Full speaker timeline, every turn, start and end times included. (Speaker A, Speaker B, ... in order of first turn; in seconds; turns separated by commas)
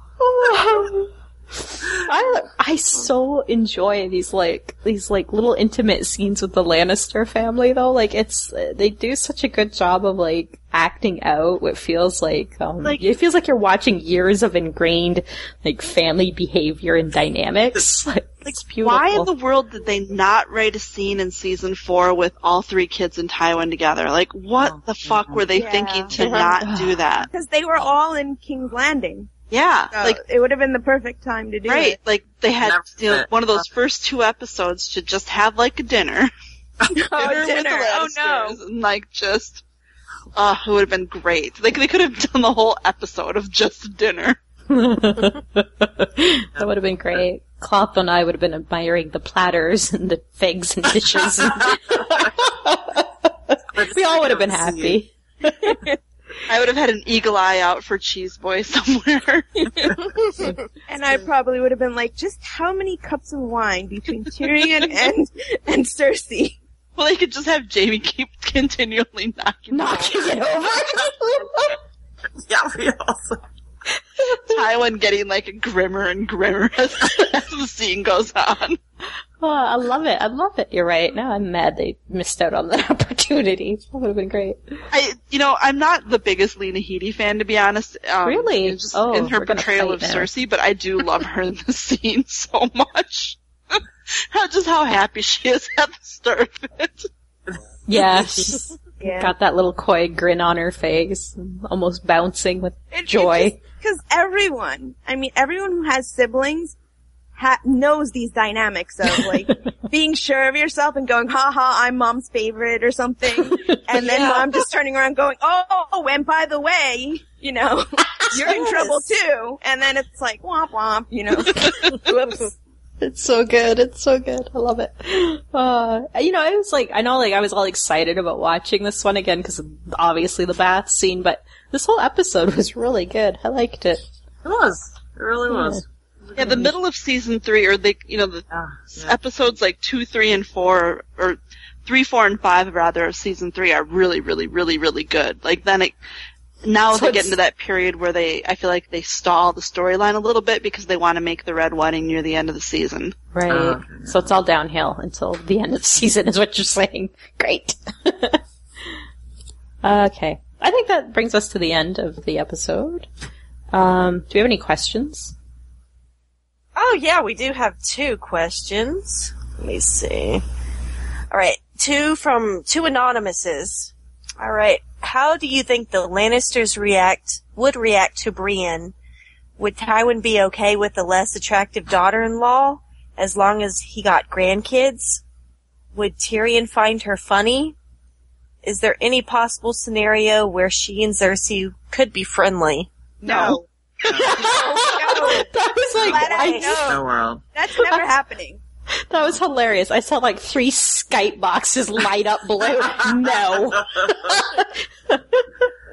Speaker A: 0.2-19.3, Speaker B: 18.8-27.3, Speaker C: 24.6-25.5, Speaker D: 25.5-26.1, Speaker C: 26.1-27.3, Speaker E: 26.2-26.5, Speaker D: 27.3-29.3, Speaker B: 29.5-30.2, Speaker D: 29.9-32.0, Speaker B: 31.7-36.3, Speaker C: 32.6-33.7, Speaker D: 36.9-38.6, Speaker B: 37.1-39.6, Speaker B: 40.4-44.4, Speaker A: 44.7-55.8, Speaker C: 51.6-52.2, Speaker C: 53.7-55.0, Speaker B: 56.5-59.7, Speaker D: 60.9-66.6, Speaker B: 67.0-70.2, Speaker A: 69.7-71.8, Speaker C: 72.4-73.4, Speaker A: 74.2-74.6, Speaker B: 74.5-78.8, Speaker A: 79.4-84.8, Speaker B: 84.9-97.1, Speaker A: 88.2-90.3, Speaker C: 97.5-98.5, Speaker A: 97.9-103.6, Speaker D: 99.0-99.3, Speaker D: 102.9-106.8, Speaker D: 107.4-122.5, Speaker A: 113.5-113.8, Speaker E: 114.0-114.5, Speaker A: 118.2-118.8, Speaker E: 118.4-119.0, Speaker A: 123.0-134.0, Speaker C: 134.4-136.6, Speaker A: 135.5-135.8, Speaker B: 136.4-146.0, Speaker A: 136.4-136.7, Speaker C: 138.5-139.2, Speaker B: 146.7-153.2, Speaker A: 146.9-147.3, Speaker A: 153.3-158.4, Speaker C: 153.5-154.3, Speaker A: 159.8-163.1, Speaker A: 163.7-165.3, Speaker E: 166.8-170.4, Speaker E: 171.3-178.9, Speaker E: 179.6-185.2, Speaker E: 185.9-187.8, Speaker E: 188.6-192.9, Speaker D: 193.2-193.6, Speaker C: 193.3-194.4, Speaker A: 193.3-193.6, Speaker A: 194.1-197.0, Speaker D: 194.3-197.0, Speaker E: 194.4-195.2, Speaker C: 196.0-196.2, Speaker E: 196.1-196.8, Speaker C: 196.8-197.4, Speaker D: 197.5-198.6, Speaker A: 197.8-198.1, Speaker A: 199.1-205.6, Speaker C: 202.7-204.4